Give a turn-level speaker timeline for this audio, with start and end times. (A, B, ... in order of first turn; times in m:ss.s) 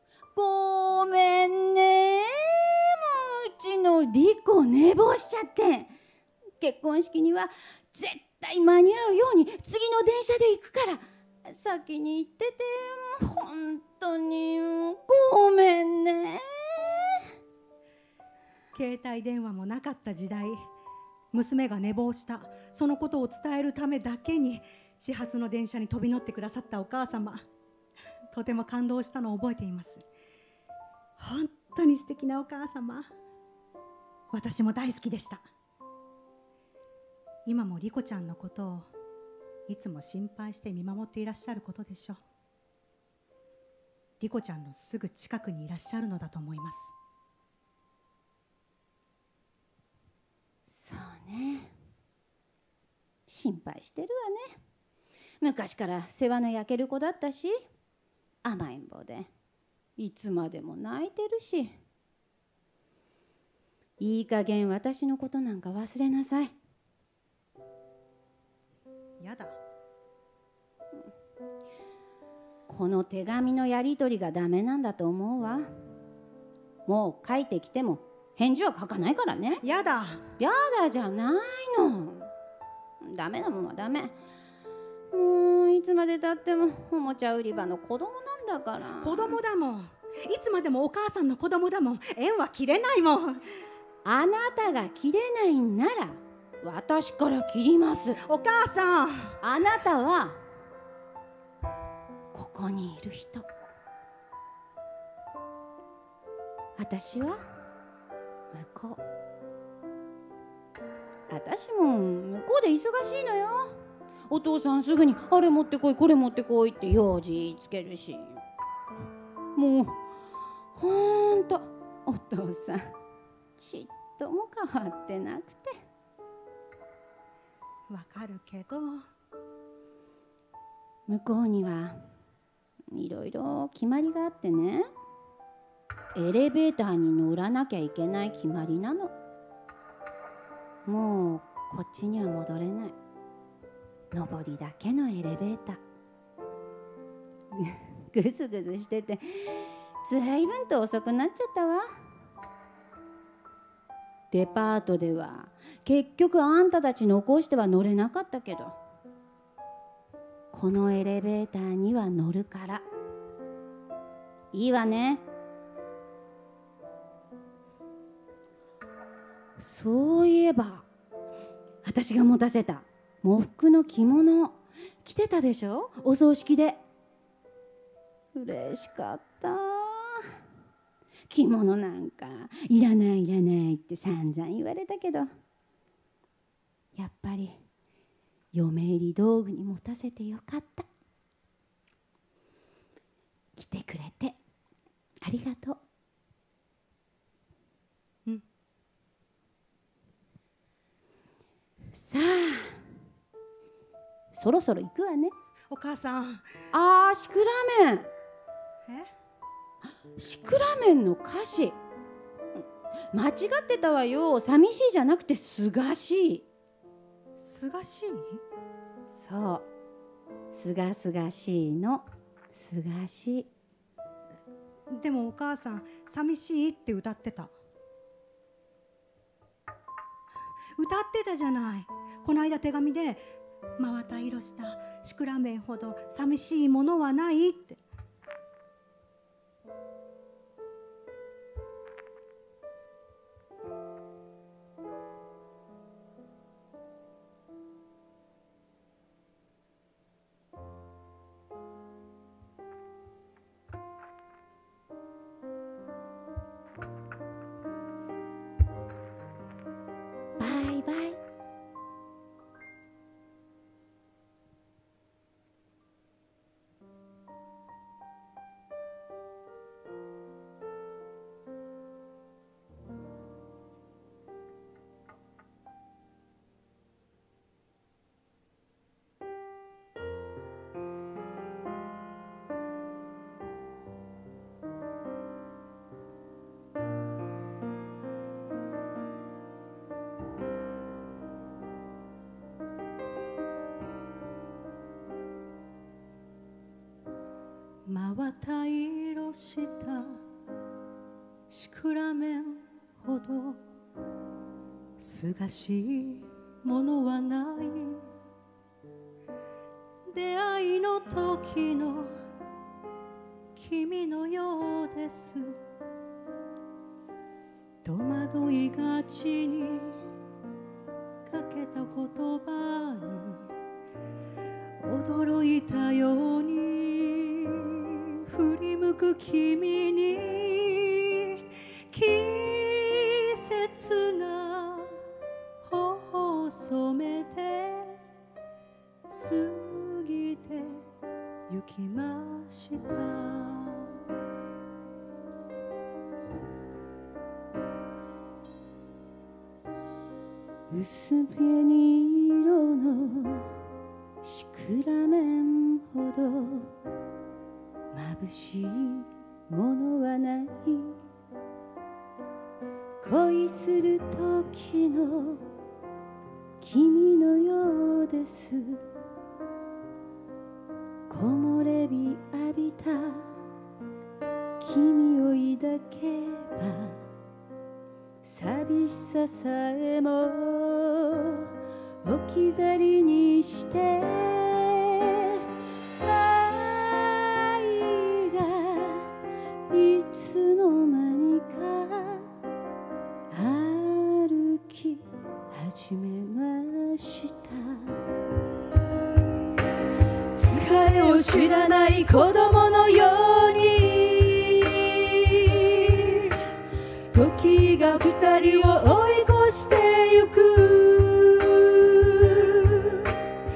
0:00.4-0:05.9 A
0:06.6-0:17.3 A
0:18.7-0:20.6 B
0:21.3-0:27.5 B
0:28.3-0:30.0 B
0:31.2-0:33.1 B
0:34.3-0:35.4 B
0:37.5-0:38.9 B
0:39.7-0:42.2 B
0:44.2-0:46.9 B
0:50.7-0:51.7 A
0:53.3-0:54.6 A
0:55.4-0:57.6 A
0:58.4-0:59.3 A
1:00.0-1:01.7 A
1:04.0-1:06.5 A
1:09.2-1:09.6 B
1:12.7-1:15.7 A
1:16.9-1:19.6 A
1:19.6-1:20.2 B
1:20.4-1:22.3 A
1:23.0-1:24.1 A
1:25.1-1:29.4 A
1:29.0-1:33.4 B
1:34.0-1:38.2 A
1:38.3-1:39.4 B
1:39.4-1:40.4 A
1:42.3-1:43.5 A
1:46.8-1:47.4 A
1:48.5-1:49.0 A
1:51.3-1:53.8 A
1:54.3-1:58.4 A
1:59.6-2:00.0 A
2:00.8-2:02.9 A
2:03.6-2:05.7 A
2:07.9-2:09.0 B
2:11.1-2:12.0 A
2:12.9-2:14.9 A
2:16.2-2:19.1 A
2:20.9-2:23.0 A
2:24.1-2:25.8 A
2:27.5-2:31.9 A
2:34.3-2:38.8 A
2:40.5-2:42.9 A
2:44.5-2:45.2 A
2:49.6-2:50.9 A
2:51.8-2:56.8 A
2:58.3-3:00.4 A
3:01.3-3:05.3 A
3:07.0-3:07.6 A
3:08.5-3:10.9 A
3:13.6-3:14.4 A
3:15.2-3:15.8 A
3:21.9-3:23.0 A
3:24.3-3:25.3 A
3:25.7-3:26.4 B
3:26.7-3:28.1 A
3:30.2-3:31.8 A
3:33.1-3:36.4 A
3:37.4-3:38.4 B
3:39.1-3:39.6 A
3:40.5-3:43.5 A
3:45.0-3:47.5 B
3:50.8-3:53.2 B
3:53.8-3:57.8 B
4:20.4-4:21.2 A
4:57.9-5:00.2 B
5:01.5-5:03.6 B
5:05.0-5:08.1 B
5:10.1-5:12.1 B
5:13.6-5:15.6 B
5:17.8-5:20.0 B
5:21.3-5:23.5 B
5:24.8-5:35.0 B
5:35.6-5:38.0 B
5:39.1-5:40.8 B
5:41.5-5:44.0 B
5:50.7-5:53.5 A
5:54.2-5:56.7 A
5:57.9-6:01.0 A
6:03.0-6:05.5 A
6:06.6-6:08.8 A
6:11.1-6:13.4 A
6:14.6-6:17.0 A
6:18.2-6:21.5 A
6:22.0-6:25.5 A
6:26.0-6:29.1 A
6:29.7-6:32.3 A
6:33.3-6:38.1 A
6:40.4-6:46.4 A
6:47.1-6:53.2 A